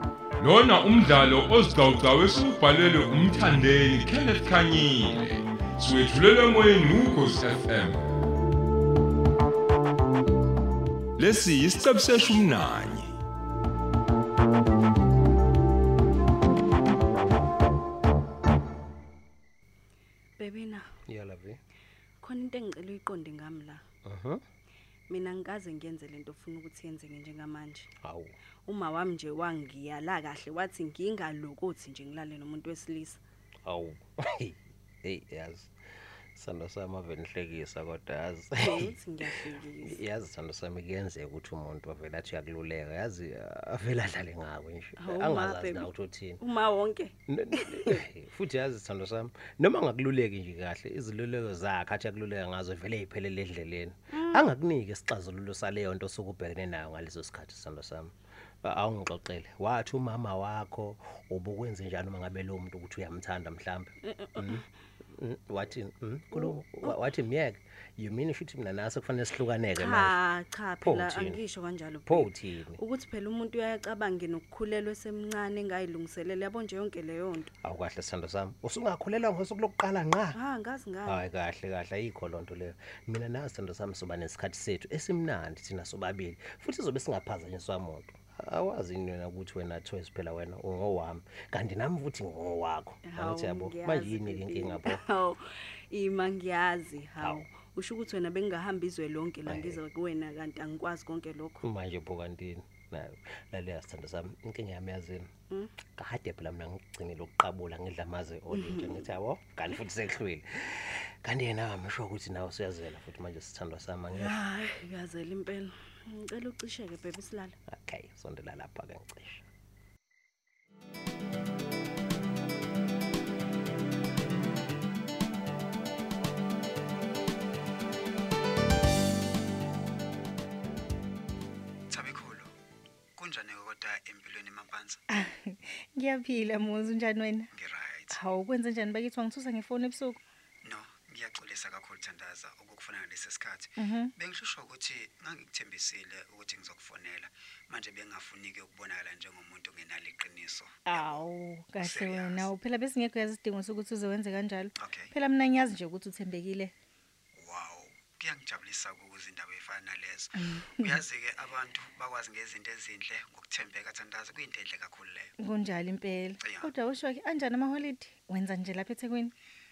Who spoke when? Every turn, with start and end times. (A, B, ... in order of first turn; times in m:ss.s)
0:00.4-0:08.1 A
0:11.2-0:13.1 A
0:20.4-0:20.8 B
0:21.1-0:21.6 C
0:22.2-0:23.8 B
0:24.0-0:24.4 C
0:25.1-0:27.9 B
0:28.0-0:28.4 C
0:28.6-0:33.2 B
0:33.6-0:35.7 C
0:36.3-0:46.4 C
0:38.6-0:40.0 B
0:45.0-0:45.9 B
0:46.4-0:48.0 B
0:47.3-1:10.2 C
0:54.1-0:54.4 B
1:04.1-1:04.6 B
1:06.3-1:07.0 B
1:09.7-1:17.5 B
1:10.8-1:11.5 C
1:12.0-1:12.8 C
1:17.6-1:20.4 C
1:20.4-1:21.2 B
1:21.0-1:35.0 C
1:33.0-1:41.6 B
1:37.2-1:37.6 C
1:39.4-1:39.8 C
1:41.6-1:54.4 C
1:48.5-1:49.0 B
1:54.1-1:57.5 B
1:57.7-1:59.4 C
2:11.9-2:12.5 D
2:13.2-2:15.0 D
2:15.1-2:17.5 E
2:17.5-2:18.2 D
2:18.1-2:20.2 E
2:20.6-2:31.2 D
2:23.8-2:24.1 E
2:30.8-2:36.7 E
2:31.8-2:32.5 D
2:34.8-2:35.1 D
2:37.3-2:45.3 D
2:40.4-2:41.0 E
2:45.4-2:49.3 E
2:46.4-2:46.7 D